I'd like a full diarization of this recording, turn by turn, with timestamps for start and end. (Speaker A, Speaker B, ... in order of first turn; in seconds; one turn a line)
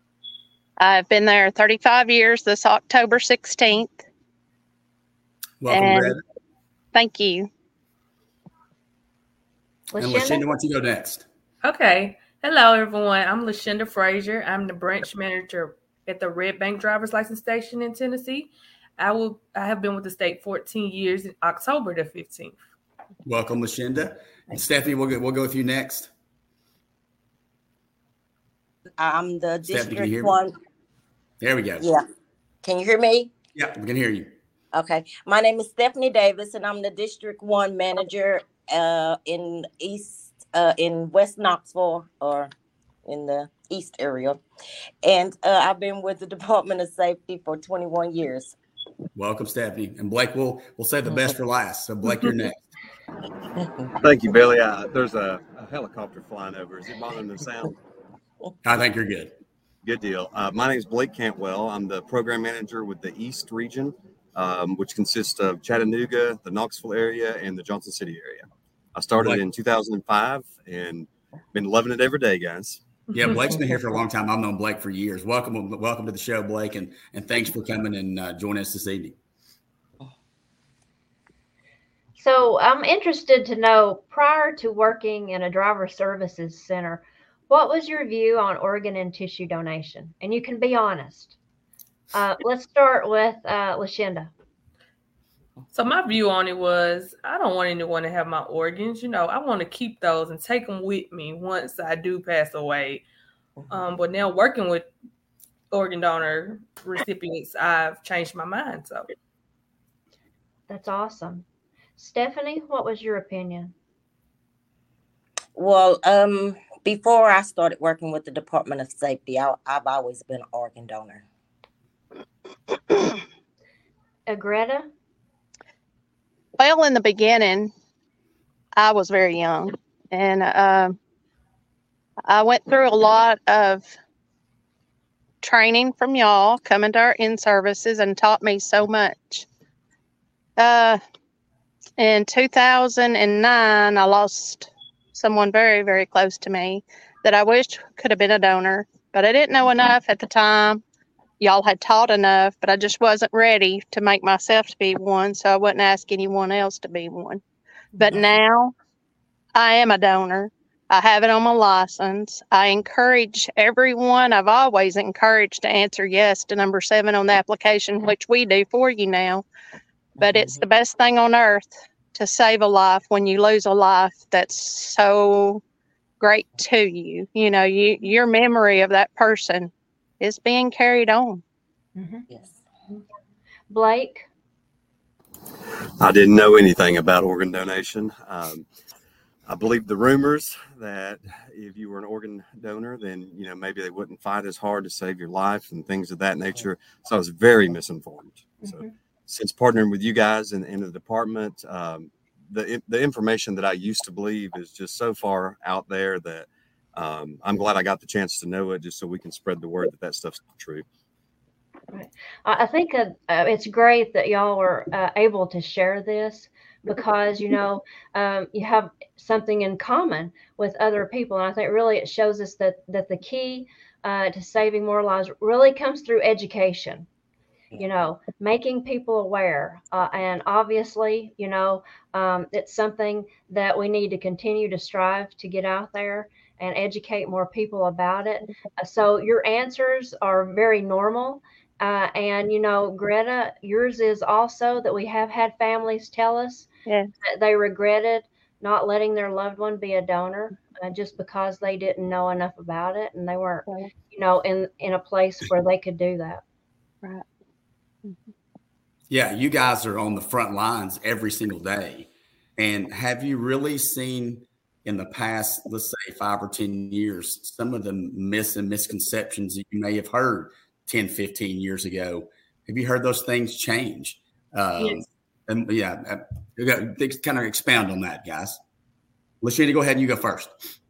Speaker A: 0.8-4.0
Speaker B: 5.6-6.2
Speaker A: 5.7-6.2
Speaker A: 6.9-7.5
Speaker C: 9.9-10.4
Speaker B: 10.0-11.2
Speaker D: 11.6-22.6
Speaker B: 23.3-26.1
Speaker E: 29.0-30.6
Speaker B: 29.7-30.4
Speaker B: 31.4-31.9
Speaker E: 31.8-32.0
Speaker E: 32.6-33.3
Speaker B: 33.5-34.3
Speaker E: 34.7-42.5
Speaker E: 43.0-44.4
Speaker E: 45.0-48.5
Speaker B: 49.1-52.6
Speaker F: 54.0-57.8
Speaker B: 58.6-59.3
Speaker F: 59.8-72.8
Speaker B: 69.2-69.4
Speaker B: 73.1-79.2
Speaker C: 82.2-91.4
Speaker C: 92.1-94.3
Speaker D: 95.7-103.0
Speaker D: 103.7-104.9
Speaker D: 105.7-109.1
Speaker C: 110.7-111.5
Speaker C: 112.0-113.7
Speaker E: 115.6-121.3
Speaker C: 124.3-124.9
Speaker A: 126.6-127.7
Speaker A: 128.8-131.0
Speaker A: 132.3-133.9
Speaker A: 135.4-139.5
Speaker A: 140.6-141.0
Speaker A: 142.0-150.8
Speaker A: 151.4-157.4
Speaker A: 158.0-158.7
Speaker A: 159.6-169.4
Speaker E: 170.2-170.6
Speaker A: 170.2-175.6
Speaker A: 176.2-181.4
Speaker C: 182.0-182.3
Speaker C: 183.7-184.3
Speaker F: 186.0-188.7
Speaker F: 189.5-210.8
Speaker C: 198.6-198.9
Speaker C: 211.9-227.1
Speaker C: 227.7-246.7
Speaker A: 246.9-247.1
Speaker C: 247.2-256.4
Speaker B: 259.1-278.6
Speaker B: 279.4-280.5